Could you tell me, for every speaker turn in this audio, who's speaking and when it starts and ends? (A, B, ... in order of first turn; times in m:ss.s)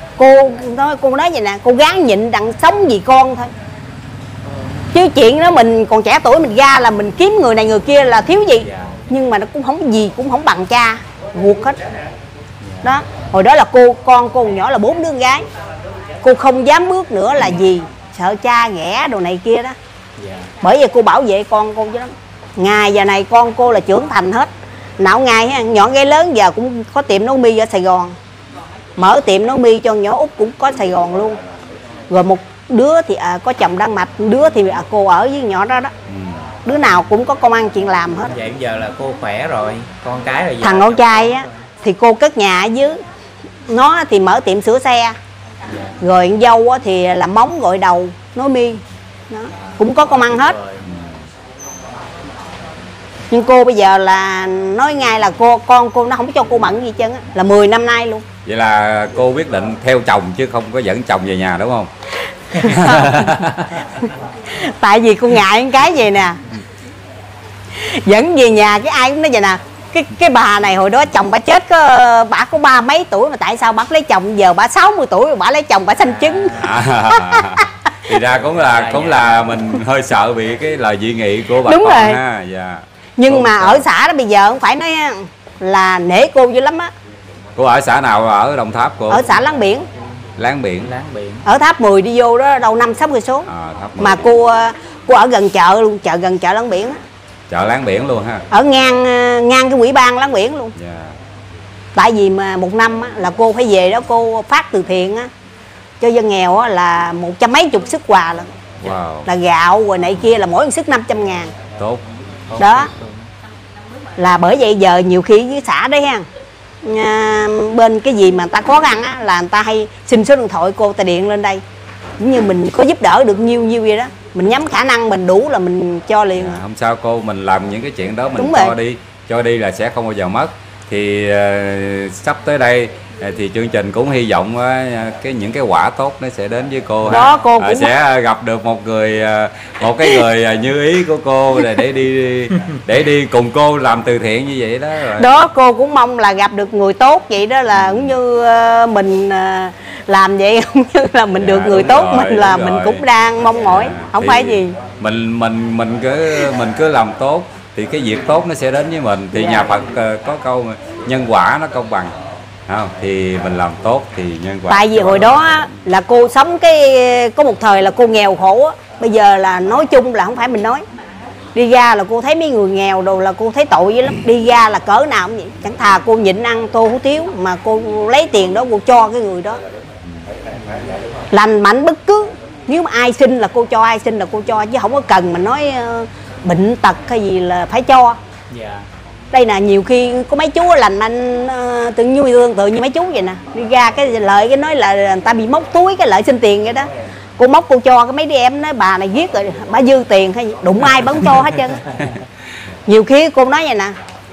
0:00.2-0:03.5 A
0:04.9-0:11.8 A
0:08.6-0:09.0 B
0:12.6-0:12.9 B
0:12.8-0:15.4 A
0:16.2-0:19.8 A
0:20.2-0:20.5 B
0:20.6-0:28.1 A
0:29.0-0:31.4 A
0:32.1-0:35.9 A
0:36.1-0:36.4 C
0:36.6-0:38.3 A
0:38.2-0:41.5 B
0:40.6-0:43.0 A
0:43.7-0:45.2 A
0:45.6-0:46.0 B
0:46.0-0:50.6 A
0:49.5-0:50.8 B
0:50.8-0:51.2 C
0:53.3-0:58.2 A
0:58.4-1:01.9 C
1:02.5-1:03.6 C
1:02.5-1:03.2 A
1:04.0-1:06.4 A
1:07.7-1:17.9 A
1:16.2-1:16.8 B
1:16.5-1:23.8 C
1:18.3-1:19.6 B
1:21.6-1:22.2 A
1:23.2-1:26.9 A
1:27.6-1:29.2 C
1:29.1-1:29.9 A
1:30.4-1:30.9 C
1:30.8-1:31.4 B
1:31.4-1:33.5 A
1:33.4-1:34.3 C
1:34.0-1:37.0 A
1:37.5-1:38.4 C
1:38.5-1:40.7 A
1:40.7-1:41.2 C
1:41.9-1:45.3 A
1:46.0-1:48.5 A
1:48.8-1:49.3 C
1:49.2-1:51.5 A
1:51.8-1:52.0 C
1:52.5-1:53.3 B
1:52.6-1:52.9 A
1:54.2-1:56.2 A
1:56.8-2:01.6 A
2:02.2-2:06.6 A
2:06.3-2:25.4 C
2:08.4-2:08.7 A
2:17.1-2:17.9 A
2:25.1-2:34.8 A
2:27.7-2:28.1 C
2:31.4-2:33.0 C
2:33.5-2:42.1 C
2:42.7-2:45.7 C
2:44.7-2:50.8 A
2:51.5-2:59.6 A
3:00.6-3:01.0 B
3:01.3-3:08.2 A
3:08.5-3:08.9 B
3:09.3-3:21.8 A
3:21.7-3:22.1 B
3:21.9-3:22.2 C
3:22.9-3:24.0 A